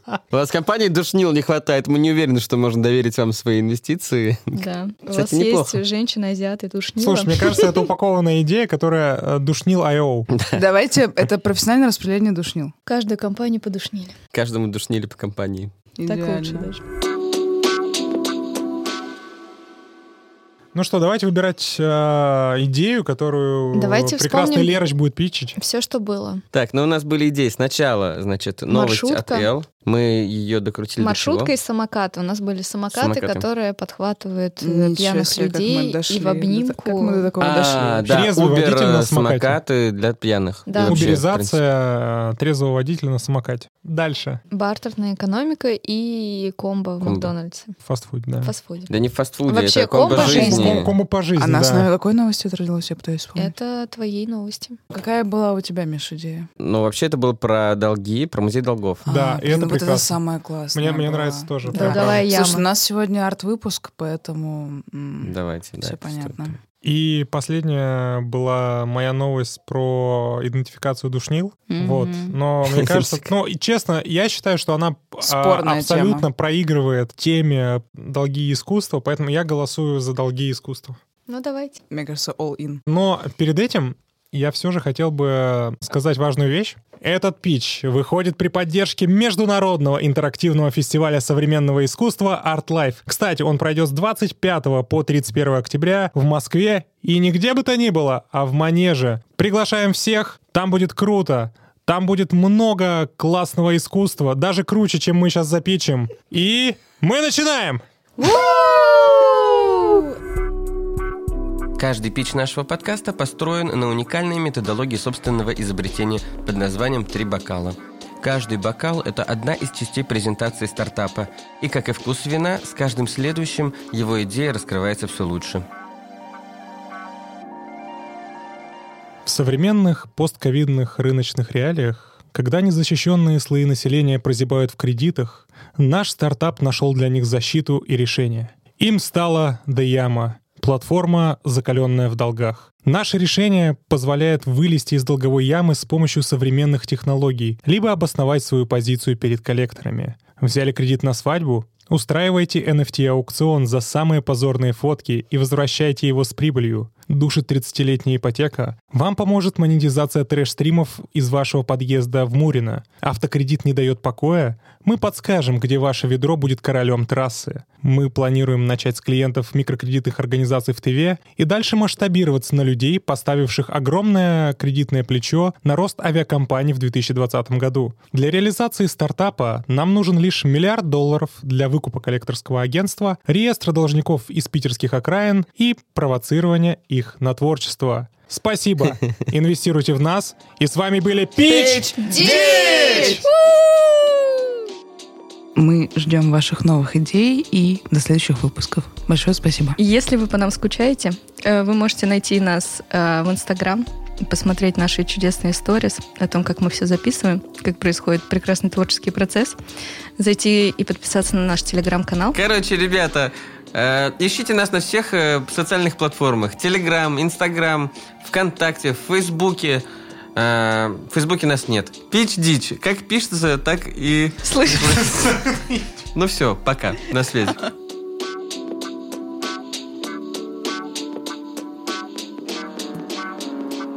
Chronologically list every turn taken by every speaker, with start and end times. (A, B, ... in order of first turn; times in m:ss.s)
0:00.3-0:04.6 A
0:04.5-0:07.8 B
0:05.1-0:05.8 A
0:07.0-0:10.3 C
0:10.3-0:10.6 A
0:10.5-0:12.7 D
0:12.8-0:14.1 B
0:14.3-0:15.7 A
0:15.9-0:16.7 D
0:16.1-0:16.8 B
0:20.7-0:25.6 C
0:23.7-0:24.7 B
0:25.6-0:26.4 B
0:26.5-0:31.5 A
0:28.7-0:29.5 B
0:31.0-0:37.3 B
0:32.9-0:33.4 A
0:34.6-0:38.3 D
0:37.4-0:41.6 A
0:38.1-0:39.6 C
0:40.7-0:41.2 B
0:40.8-0:44.4 C
0:44.5-0:47.7 B
0:47.0-0:47.3 A
0:47.8-0:48.5 C
0:48.4-0:48.9 B
0:48.9-0:50.9 A
0:49.4-0:50.8 B
0:50.1-0:50.8 D
0:50.1-0:51.9 C
0:51.4-0:53.5 D
0:53.4-0:54.8 B
0:54.9-0:56.5 D
0:56.6-0:59.0 A
0:59.0-1:00.2 C
0:59.0-1:06.6 D
1:00.7-1:02.2 C
1:01.7-1:02.7 B
1:05.2-1:06.5 A
1:06.8-1:21.0 C
1:11.7-1:12.3 D
1:12.6-1:13.2 A
1:15.2-1:16.3 D
1:21.3-1:21.8 B
1:21.9-1:22.8 D
1:22.9-1:47.8 C
1:48.2-1:50.0 B
1:51.8-2:05.6 A
2:09.2-3:13.2 C
3:11.8-3:13.2 D
3:12.0-3:14.4 B
3:15.6-3:19.8 D
3:19.8-3:29.6 B
3:30.2-3:32.4 B
3:32.3-3:45.4 A
3:44.4-3:45.2 D
3:45.1-3:45.8 C
3:46.1-3:47.6 A